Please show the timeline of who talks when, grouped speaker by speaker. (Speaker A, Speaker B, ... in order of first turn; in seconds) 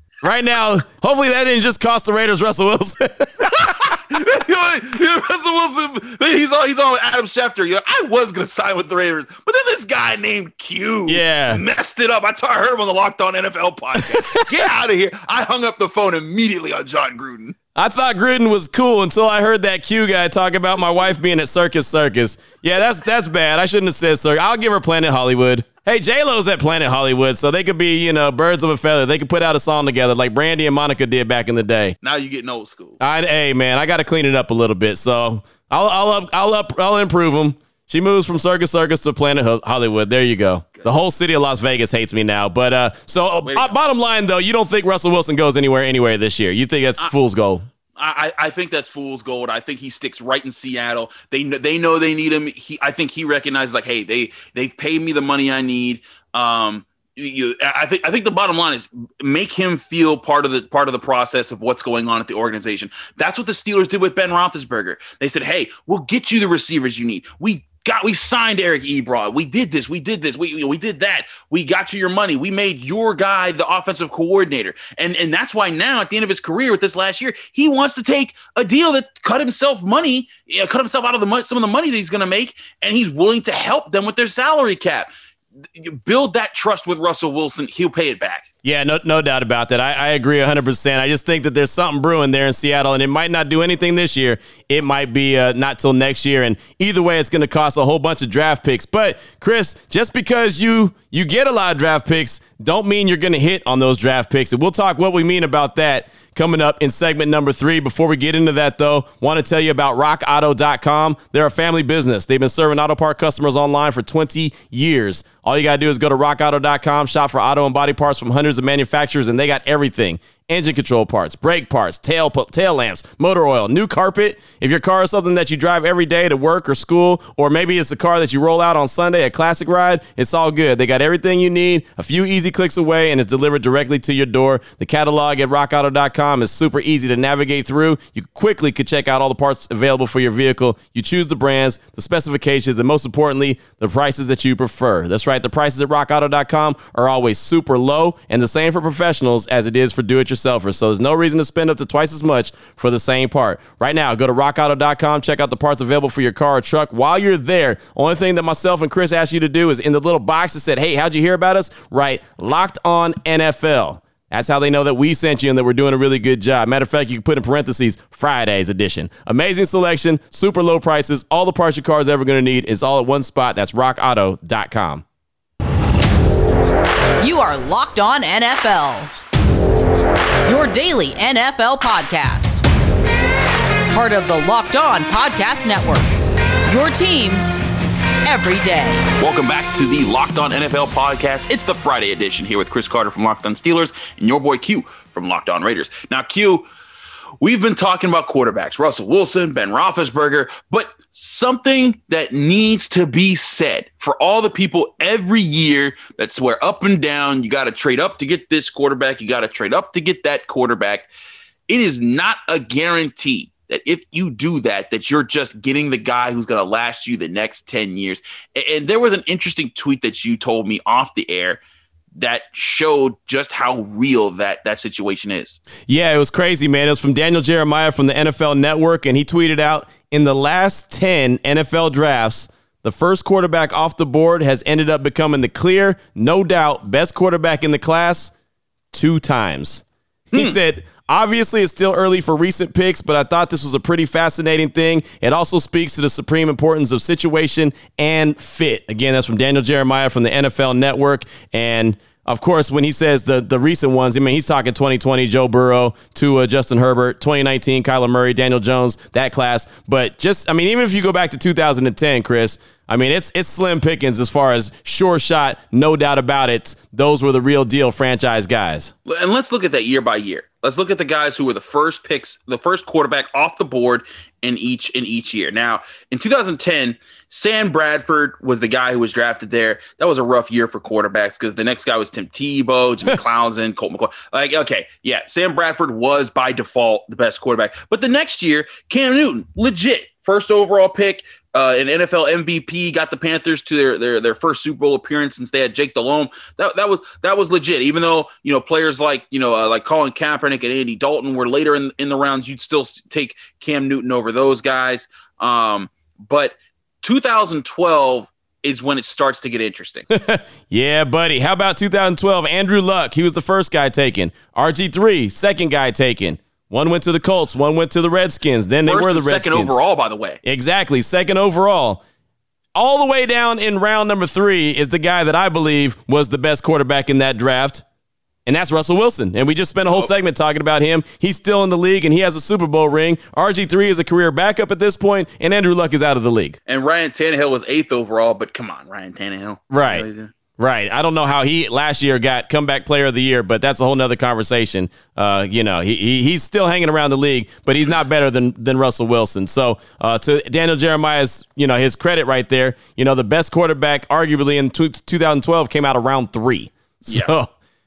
Speaker A: 0.2-4.0, 11.1-11.6, 14.0-14.7, 17.7-31.9, 33.0-47.7, 88.6-175.0, 225.8-238.3, 238.9-268.9, 310.1-319.8, 320.4-322.0, 322.7-327.8, 328.4-336.6, 339.7-340.0, 340.6-357.5
Speaker B: 3.4-17.6, 32.0-33.0, 43.4-43.8, 48.0-88.5, 189.2-196.7, 197.4-211.1, 211.7-221.6, 222.2-225.6, 269.1-310.1, 318.9-320.4, 336.6-340.3, 357.1-357.3
Speaker C: 177.2-179.1, 180.5-182.6, 183.9-186.1, 186.6-187.5, 188.2-189.1